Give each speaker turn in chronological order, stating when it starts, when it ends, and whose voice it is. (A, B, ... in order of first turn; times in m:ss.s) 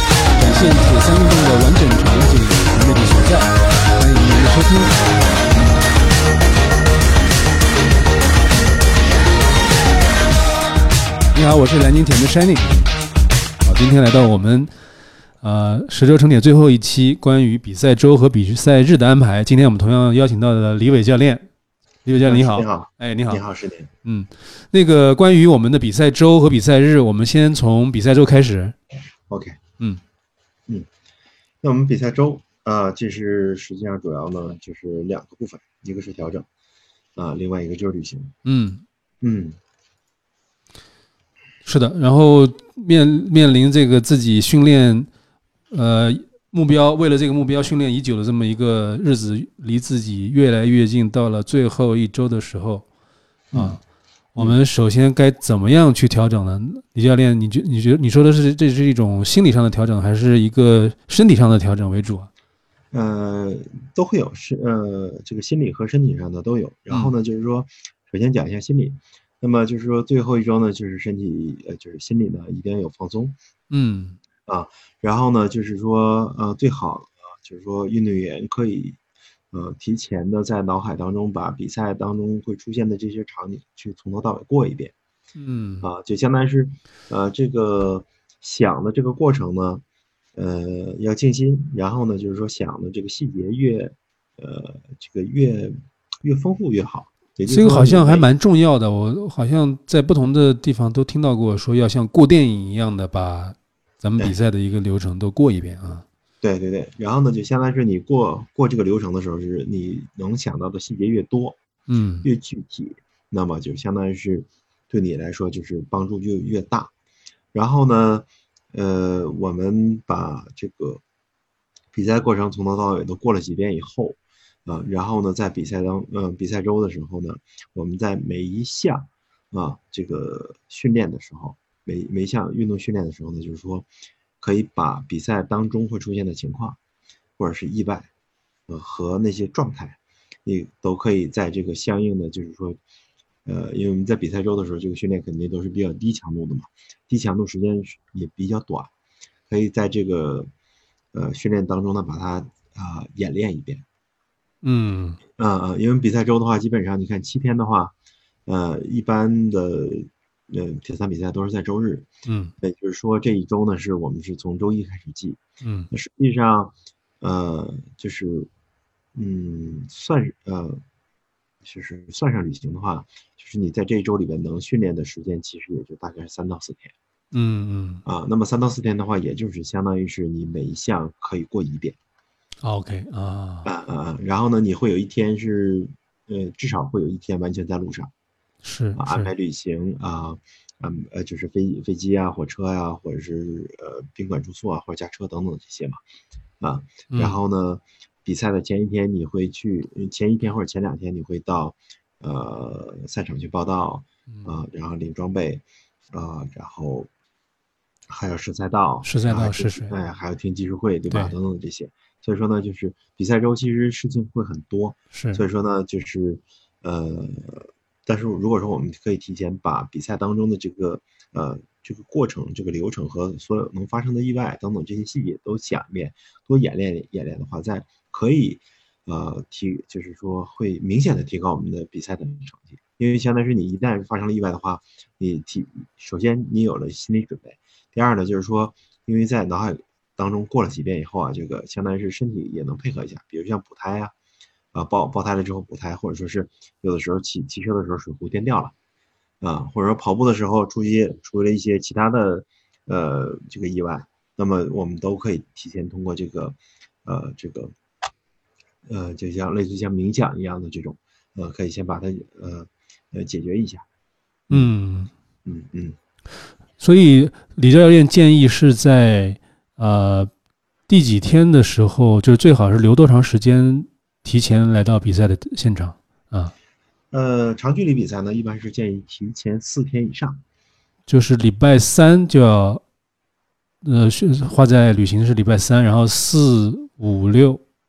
0:00.4-0:05.2 A
0:11.3-0:13.0 A
0:13.6-0:14.7 A
0:15.4-0:21.5 A
0:22.0-0:23.4 A
0:22.2-0:23.9 B
0:24.0-0:28.8 A
0:29.3-0:29.6 B
0:31.6-0:36.5 B
0:37.2-0:38.3 B
0:38.4-0:38.8 A
0:39.2-0:39.6 B
0:41.6-0:45.1 A
0:45.7-0:52.9 A
0:53.5-0:53.8 B
0:53.5-0:53.8 A
0:54.3-1:02.3 A
1:02.9-1:13.4 B
1:13.7-1:14.2 A
1:14.4-1:19.0 B
1:19.5-1:24.9 B
1:25.4-1:25.9 A
1:25.8-1:29.8 B
1:30.3-1:38.3 B
1:37.5-1:46.0 A
1:46.4-1:51.6 B
1:51.9-1:52.3 A
1:52.2-1:56.9 B
1:57.5-2:01.0 B
2:01.9-2:13.9 B
2:14.4-2:16.8 B
2:17.4-2:18.1 B
2:18.7-2:22.8 B
2:23.4-2:28.9 B
2:29.5-2:30.5 B
2:31.1-2:33.8 B
2:34.6-2:35.2 A
2:35.4-2:37.9 B
2:38.4-2:42.1 B
2:42.2-2:42.5 A
2:42.6-2:45.4 B
2:45.6-2:45.9 A
2:45.9-2:48.5 B
2:49.1-2:50.8 B
2:51.6-2:56.9 B
2:57.3-2:58.0 A
2:58.0-3:02.0 B
3:02.6-3:03.7 A
3:03.6-3:08.1 B
3:08.6-3:09.3 A
3:09.0-3:16.0 B
3:16.6-3:27.1 B
3:17.1-3:17.4 A
3:28.1-4:04.1 B
3:29.0-3:29.9 A
3:35.1-3:35.4 A
4:04.7-4:08.7 B
4:09.4-4:17.7 B
4:18.9-4:23.8 B
4:24.5-4:25.1 A
4:25.5-4:26.0 B
4:26.8-4:30.3 A
4:30.9-4:36.5 A
4:37.1-4:40.4 B
4:41.1-4:42.8 A
4:43.8-4:47.6 A